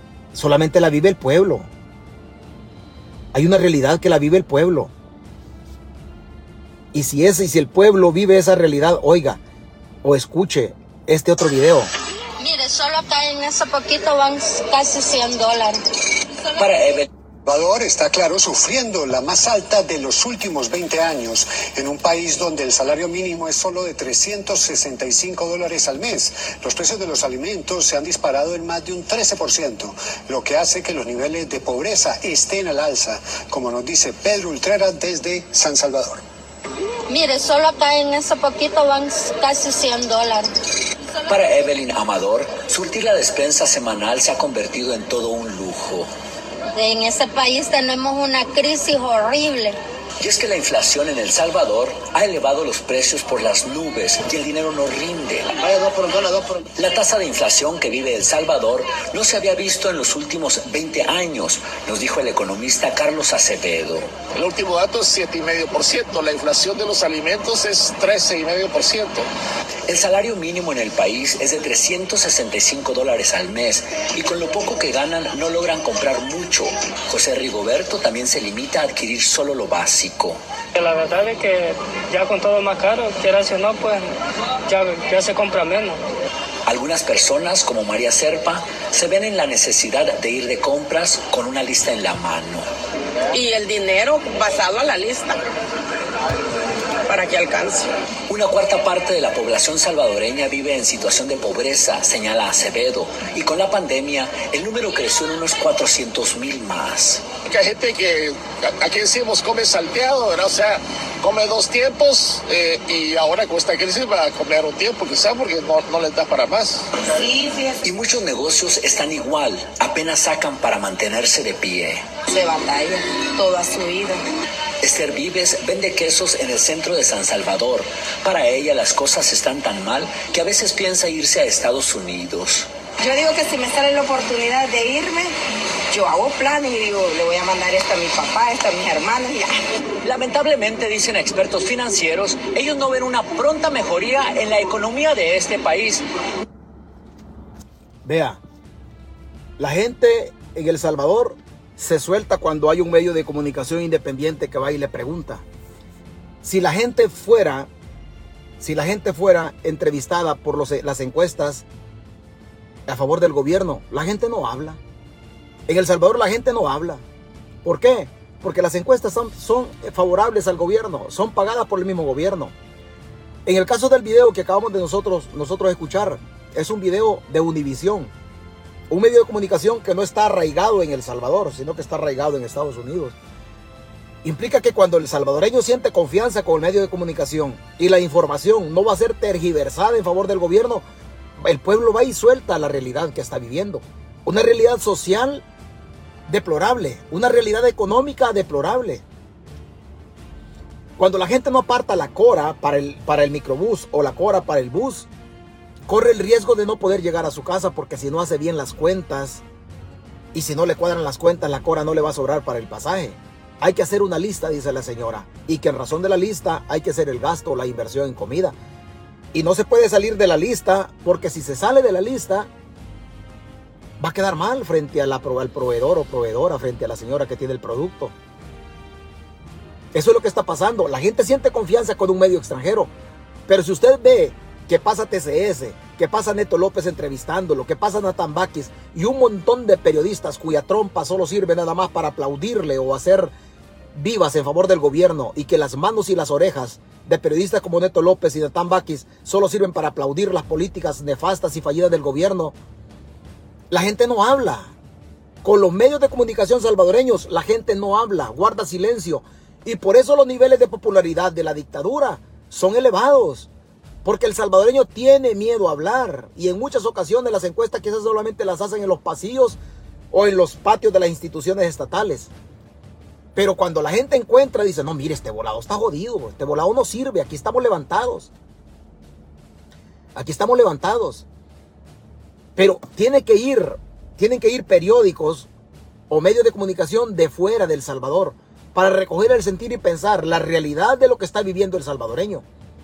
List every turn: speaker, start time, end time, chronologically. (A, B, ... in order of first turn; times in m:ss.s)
0:00.3-0:01.7 A
0:03.3-0:04.9 A
0:06.9-0:09.4 A
0:10.0-0:11.9 A
0:12.4-0:15.8 B
0:16.6-0:17.1 C
0:17.4-0:36.2 D
0:37.1-0:40.5 B
0:41.3-0:46.1 C
0:46.7-0:49.8 B
0:50.2-1:04.0 C
1:04.3-1:09.2 E
1:09.9-1:20.4 C
1:20.7-1:24.1 F
1:24.7-1:26.0 F
1:26.7-1:32.6 C
1:33.3-1:35.4 G
1:37.1-1:37.9 G
1:38.3-1:47.2 C
1:47.5-1:56.9 E
1:57.1-1:57.8 G
1:57.8-2:02.0 C
2:02.3-2:04.2 G
2:04.8-2:12.7 C
2:13.0-2:15.3 G
2:15.9-2:19.5 G
2:20.0-2:26.0 C
2:28.0-2:28.4 A
2:29.6-2:35.4 A
2:36.4-2:37.7 A
2:38.6-2:41.6 A
2:42.9-2:44.8 A
2:45.7-2:47.0 A
2:47.6-2:52.5 A
2:53.4-2:58.1 A
2:58.9-3:03.2 A
3:04.2-3:10.8 A
3:11.4-3:15.4 A
3:16.3-3:19.0 A
3:21.0-3:25.1 A
3:25.9-3:29.4 A
3:30.3-3:38.5 A
3:39.3-3:42.5 A
3:44.0-3:48.1 A
3:49.9-3:52.9 A
3:53.5-4:03.3 A
4:03.9-4:12.5 A
4:13.7-4:14.7 A
4:15.4-4:23.5 A
4:24.0-4:29.6 A
4:30.1-4:32.3 A
4:33.3-4:38.3 A
4:40.1-4:41.2 A
4:42.6-4:45.5 A
4:46.1-4:52.4 A